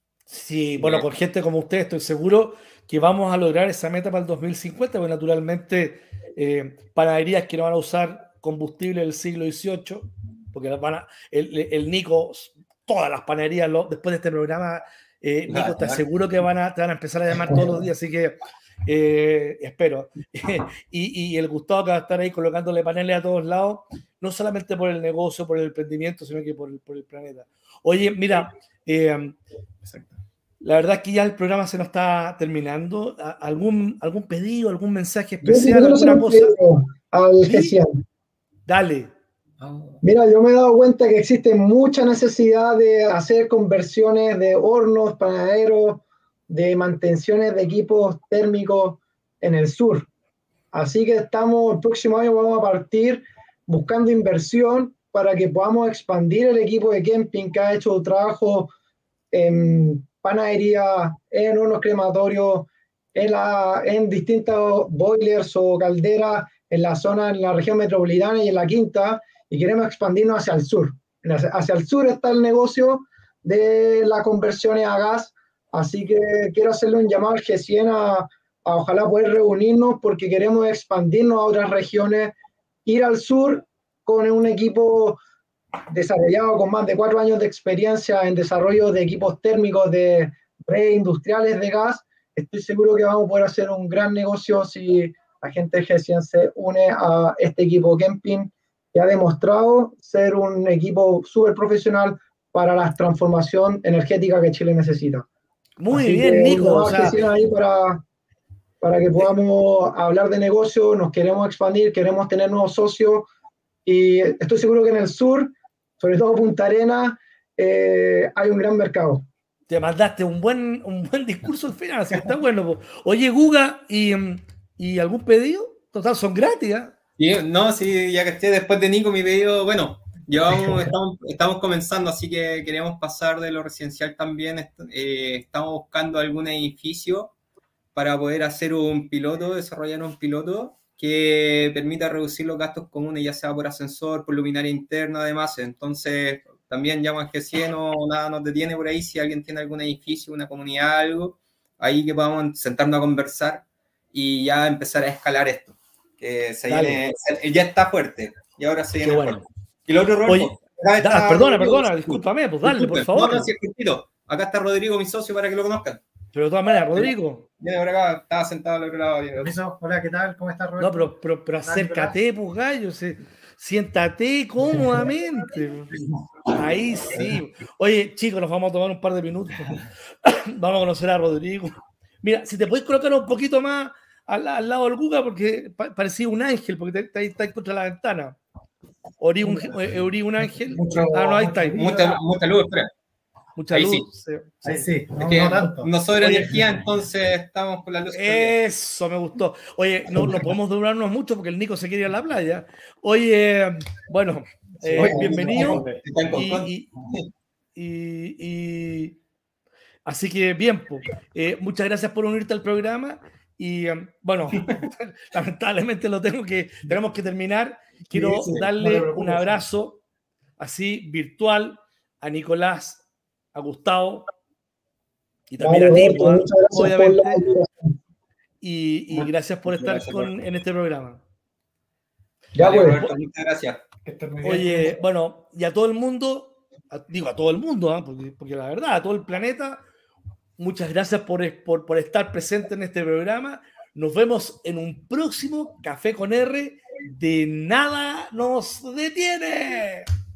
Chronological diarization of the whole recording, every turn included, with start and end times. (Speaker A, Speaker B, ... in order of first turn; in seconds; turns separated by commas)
Speaker A: 0.3-29.4, Speaker B: 0.8-1.1, Speaker B: 15.5-16.0, Speaker B: 29.9-30.2, Speaker A: 30.6-36.5, Speaker C: 35.4-37.9, Speaker A: 37.4-37.8, Speaker A: 38.7-39.1, Speaker B: 39.6-40.0, Speaker C: 40.0-50.1, Speaker C: 50.7-58.7, Speaker C: 59.3-85.2, Speaker C: 85.9-105.2, Speaker A: 105.8-107.2, Speaker C: 105.9-108.0, Speaker C: 108.8-113.3, Speaker C: 113.8-119.3, Speaker A: 119.7-126.9, Speaker B: 127.2-137.3, Speaker B: 137.9-166.0, Speaker A: 156.7-157.1, Speaker A: 159.0-159.4, Speaker A: 160.2-163.5, Speaker A: 166.3-167.4, Speaker B: 167.6-169.6, Speaker D: 169.4-172.1, Speaker A: 170.8-188.4, Speaker A: 189.2-191.9, Speaker D: 189.4-189.7, Speaker D: 190.6-192.2, Speaker B: 191.7-192.9, Speaker A: 193.6-194.7, Speaker B: 193.7-194.1, Speaker D: 194.6-196.7, Speaker B: 194.7-198.6, Speaker A: 198.1-206.9, Speaker D: 204.8-205.9, Speaker B: 204.9-207.2, Speaker A: 207.7-209.2, Speaker A: 210.1-220.0, Speaker B: 214.6-214.9, Speaker B: 218.2-218.7, Speaker D: 218.7-219.6, Speaker A: 220.6-224.2, Speaker A: 225.5-227.5, Speaker C: 225.6-227.7, Speaker A: 228.6-231.2, Speaker B: 229.1-230.3, Speaker C: 232.6-233.0, Speaker B: 232.6-233.8, Speaker A: 232.6-233.1, Speaker D: 234.1-234.9, Speaker A: 234.4-239.8, Speaker A: 240.6-250.1